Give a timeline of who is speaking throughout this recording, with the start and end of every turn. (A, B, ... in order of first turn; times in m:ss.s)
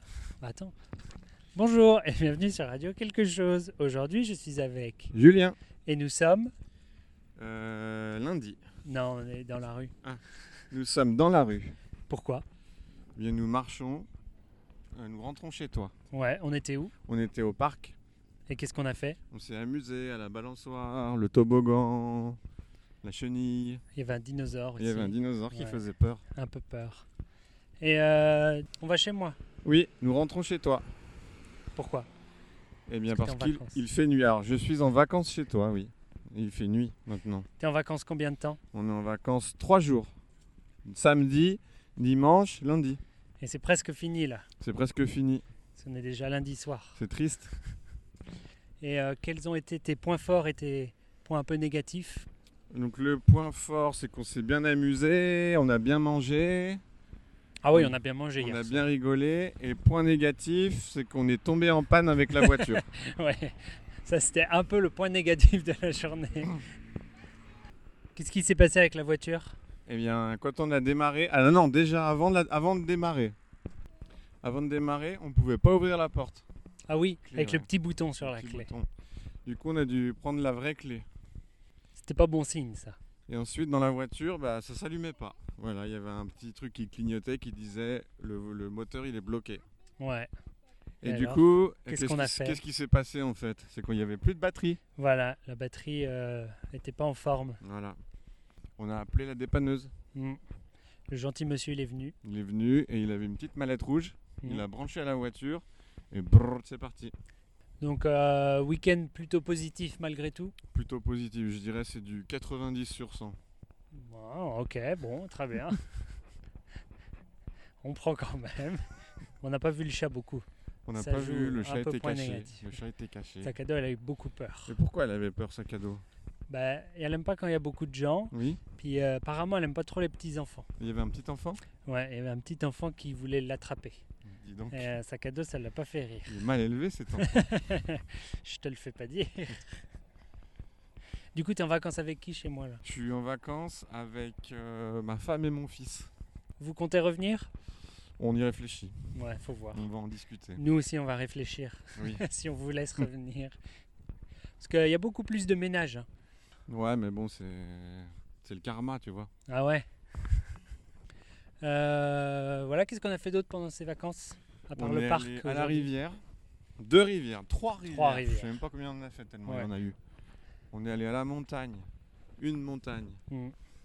0:00.4-0:00.8 A
0:01.6-0:05.1 A
0:05.1-0:05.6 B
0:05.9-0:06.5 A
0:07.4-0:08.6 B
0:08.8-0:09.9 A
0:10.0-0:11.8 B
0:12.1-0:12.4 A
0:13.2-0:14.1 B
0:15.0-0:15.9 B
0:16.1-0:16.9 A
0:17.1-0:18.0 B
0:18.5-0:19.2 A
0:19.3-0:22.4 B
0:23.0-0:23.8 B
0:23.9-0:27.1 A
0:24.8-0:26.2 B
0:27.8-0:29.4 A
0:29.6-0:30.9 B
0:31.8-0:32.1 A
0:32.9-0:37.5 B
0:33.1-0:33.8 A
0:37.6-0:38.6 A
0:38.7-0:40.1 B
0:40.8-0:43.0 B
0:43.4-0:44.5 A
0:44.6-0:45.4 B
0:45.8-0:47.0 A
0:47.0-0:47.6 B
0:48.8-0:52.3 A
0:52.7-0:56.8 B
0:57.6-0:58.9 A
0:57.7-1:02.8 B
1:02.4-1:06.6 A
1:08.2-1:09.6 A
1:09.9-1:13.4 B
1:14.4-1:16.4 B
1:16.9-1:18.7 A
1:17.3-1:17.7 B
1:18.2-1:18.9 B
1:19.5-1:21.1 B
1:22.0-1:23.0 A
1:23.3-1:29.6 B
1:30.0-1:30.3 A
1:31.0-1:34.8 B
1:31.0-1:32.6 A
1:35.0-1:37.6 A
1:37.6-1:38.0 B
1:38.8-1:39.9 B
1:40.2-1:40.4 A
1:41.1-1:42.2 A
1:42.2-1:47.1 B
1:47.8-1:50.6 A
1:50.7-1:53.4 B
1:53.9-1:55.9 A
1:57.8-1:58.8 A
1:59.4-2:02.7 A
2:00.9-2:03.5 B
2:03.4-2:04.8 A
2:04.7-2:06.0 B
2:06.5-2:10.7 A
2:08.3-2:08.6 B
2:10.8-2:11.6 B
2:11.8-2:14.0 A
2:14.2-2:14.9 B
2:14.7-2:16.4 A
2:16.3-2:17.4 B
2:17.2-2:19.8 A
2:21.4-2:22.8 A
2:22.8-2:26.1 B
2:26.6-2:27.5 A
2:28.2-2:29.1 B
2:29.1-2:29.8 A
2:29.7-2:30.6 B
2:30.6-2:33.6 A
2:32.0-2:32.2 B
2:34.6-2:36.1 A
2:36.7-2:39.3 B
2:39.5-2:39.9 A
2:41.6-2:45.9 A
2:44.8-2:46.2 B
2:46.8-2:50.0 B
2:47.8-2:48.6 A
2:50.7-2:53.2 B
2:53.3-2:53.6 A